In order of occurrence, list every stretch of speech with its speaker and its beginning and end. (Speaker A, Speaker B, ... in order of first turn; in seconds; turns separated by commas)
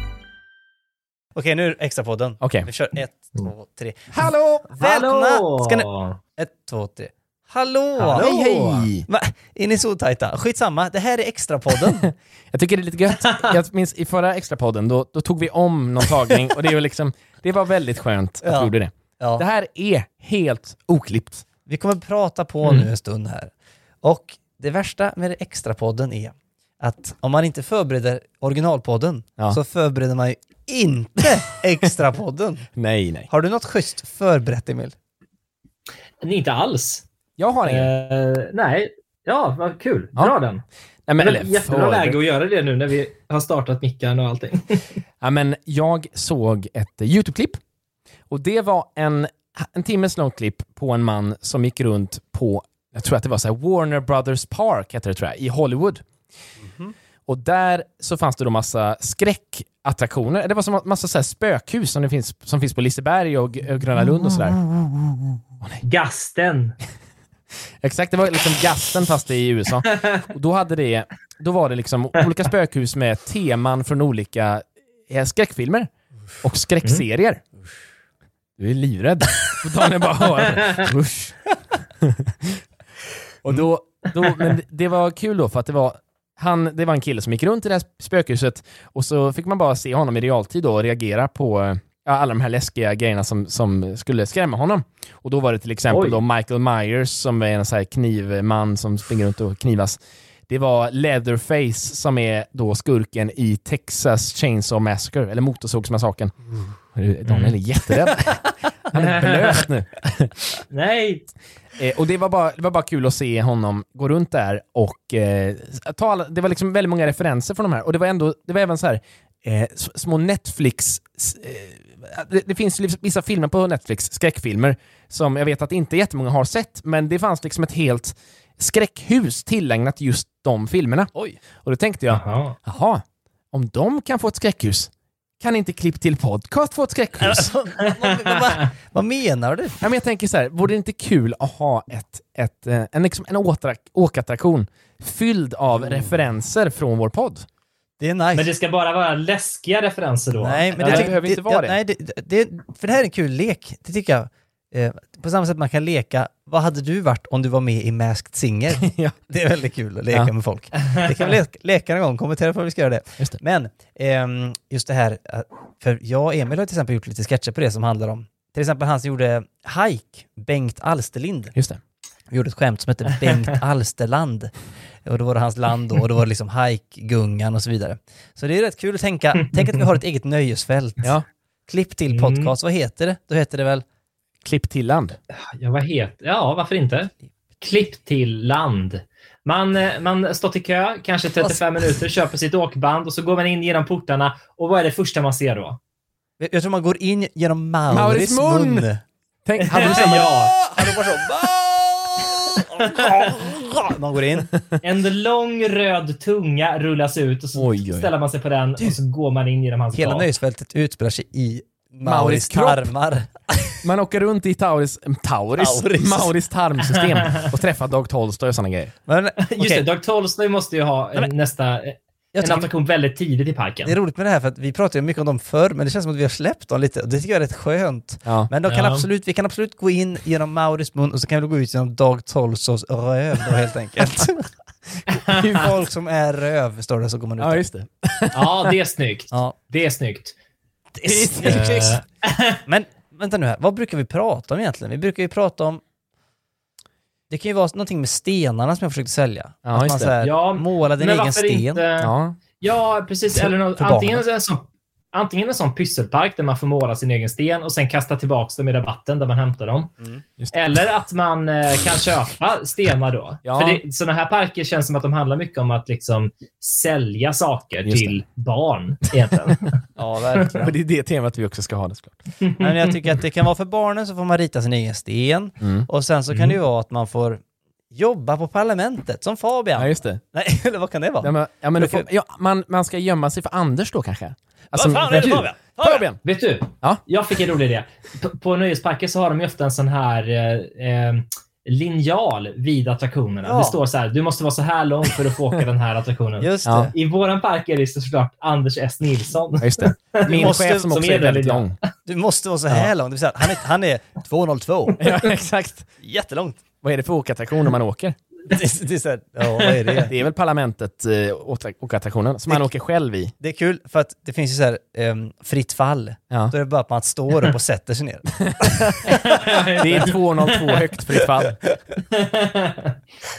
Speaker A: 1.3-12.1, Speaker B: 2.4-2.7, Speaker B: 4.1-4.7, Speaker C: 4.7-6.2, Speaker C: 8.0-8.3, Speaker B: 8.1-9.1, Speaker B: 11.8-21.4, Speaker C: 13.1-13.5, Speaker A: 18.4-19.4, Speaker A: 21.6-32.7, Speaker B: 32.8-33.3, Speaker A: 33.3-34.9, Speaker C: 36.2-37.0, Speaker B: 37.4-37.9, Speaker C: 37.6-40.6, Speaker B: 41.1-42.2, Speaker C: 41.2-44.9, Speaker B: 45.2-47.6, Speaker B: 48.3-56.0, Speaker A: 56.6-56.9, Speaker B: 57.3-64.6, Speaker C: 65.8-66.8, Speaker B: 67.8-75.9, Speaker B: 76.4-77.4, Speaker B: 78.6-82.6, Speaker B: 83.4-106.3, Speaker C: 95.9-96.2, Speaker B: 106.9-110.3, Speaker C: 107.2-107.5, Speaker C: 108.9-109.5, Speaker C: 110.7-111.3, Speaker B: 111.8-137.5, Speaker A: 131.1-131.4, Speaker C: 132.1-132.5, Speaker A: 137.2-139.8, Speaker B: 139.8-147.4, Speaker A: 145.7-146.2, Speaker A: 148.0-148.5, Speaker C: 148.3-151.1, Speaker A: 150.3-171.5, Speaker B: 150.7-151.8, Speaker B: 158.8-159.1, Speaker B: 171.5-171.8, Speaker A: 172.3-174.5, Speaker A: 175.0-181.1, Speaker A: 181.7-183.8, Speaker C: 182.1-182.5, Speaker B: 184.4-185.2, Speaker C: 185.5-195.8, Speaker A: 196.4-199.0, Speaker B: 197.9-198.9, Speaker B: 199.4-200.9, Speaker C: 199.6-200.5, Speaker A: 200.7-204.5, Speaker C: 204.8-210.3, Speaker B: 207.5-208.1, Speaker A: 209.9-213.8, Speaker B: 212.0-212.8, Speaker B: 213.8-218.9, Speaker A: 215.6-216.3, Speaker A: 219.1-219.8, Speaker C: 219.5-223.9, Speaker A: 222.3-222.7, Speaker A: 223.8-234.5, Speaker B: 228.2-228.5, Speaker C: 228.7-229.1, Speaker A: 235.3-237.6, Speaker B: 237.4-238.7, Speaker C: 238.3-240.3, Speaker A: 239.3-239.6, Speaker A: 240.9-242.0, Speaker C: 241.2-242.6, Speaker A: 242.7-245.8, Speaker A: 247.3-251.8, Speaker B: 249.7-250.1, Speaker C: 250.2-259.9, Speaker B: 252.0-252.4, Speaker A: 253.3-254.2, Speaker C: 260.5-269.8, Speaker B: 263.4-263.8, Speaker B: 267.9-268.2, Speaker A: 270.0-270.7, Speaker B: 270.6-272.2, Speaker C: 272.4-272.8, Speaker A: 272.6-282.1, Speaker B: 275.6-276.6, Speaker B: 279.8-280.2, Speaker B: 281.2-285.1, Speaker A: 284.7-286.1, Speaker C: 285.0-285.5, Speaker B: 285.8-286.2, Speaker C: 286.2-301.7, Speaker A: 293.4-293.8, Speaker A: 296.4-296.9, Speaker B: 296.6-296.9, Speaker B: 299.6-301.8, Speaker A: 300.2-300.9, Speaker A: 302.0-305.0, Speaker B: 305.0-305.9, Speaker A: 306.0-306.6, Speaker B: 306.8-308.2, Speaker A: 308.5-310.1, Speaker B: 310.1-313.3, Speaker A: 313.4-318.8, Speaker B: 318.6-319.1, Speaker C: 319.1-320.6, Speaker B: 319.8-321.6, Speaker C: 322.1-322.9